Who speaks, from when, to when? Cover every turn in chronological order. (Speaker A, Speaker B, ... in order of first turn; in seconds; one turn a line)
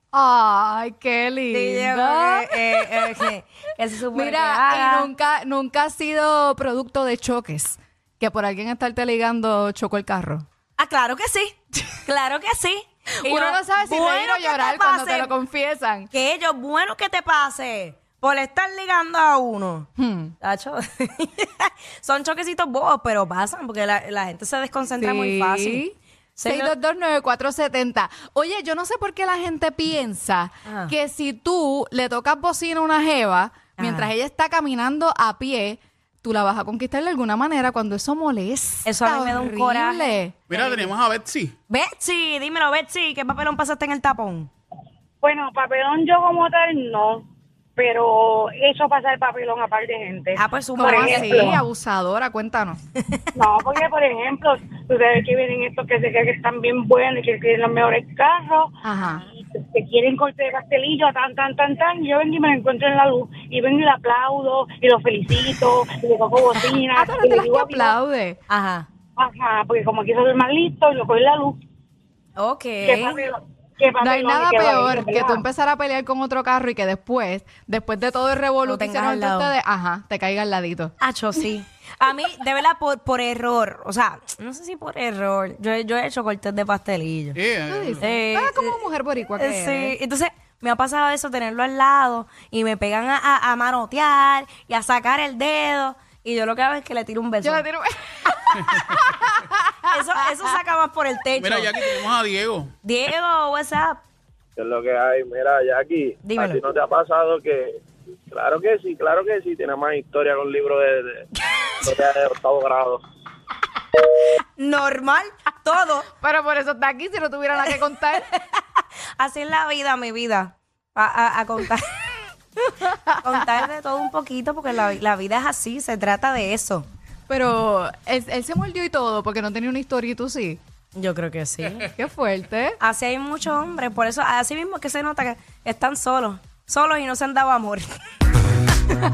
Speaker A: 0.1-3.3
Speaker B: 1.5-5.1
Speaker A: 4.1-10.4
Speaker B: 10.8-15.3
Speaker A: 13.2-16.1
Speaker B: 16.1-19.9
Speaker A: 20.0-20.3
Speaker B: 20.4-25.9
Speaker A: 24.9-40.4
Speaker B: 26.4-26.7
Speaker B: 30.6-30.9
Speaker B: 33.8-34.1
Speaker B: 38.8-40.6
Speaker C: 40.5-41.5
Speaker B: 41.7-44.5
Speaker D: 45.2-47.2
Speaker D: 47.8-51.6
Speaker B: 50.4-51.6
Speaker A: 50.8-52.8
Speaker D: 53.3-58.7
Speaker A: 58.8-59.2
Speaker D: 59.3-68.0
Speaker A: 66.9-68.4
Speaker B: 68.5-68.9
Speaker D: 69.2-71.6
Speaker B: 72.4-73.2
Speaker D: 72.8-75.4
Speaker A: 74.0-80.9
Speaker B: 78.6-79.5
Speaker B: 81.0-87.4
Speaker C: 87.3-88.1
Speaker A: 87.7-90.0
Speaker B: 88.0-88.8
Speaker B: 89.4-97.6
Speaker A: 97.4-99.9
Speaker B: 99.9-101.9
Speaker C: 101.4-102.7
Speaker B: 102.8-104.0
Speaker E: 104.5-107.8
Speaker B: 106.2-106.6
Speaker E: 108.3-111.2
Speaker B: 111.4-112.0
Speaker E: 111.8-113.0
Speaker B: 114.6-116.1
Speaker A: 116.1-118.3
Speaker B: 117.7-121.9
Speaker A: 122.8-123.1
Speaker B: 123.1-126.9
Speaker A: 127.3-130.6
Speaker B: 130.9-131.9
Speaker A: 131.9-132.8
Speaker B: 132.8-137.9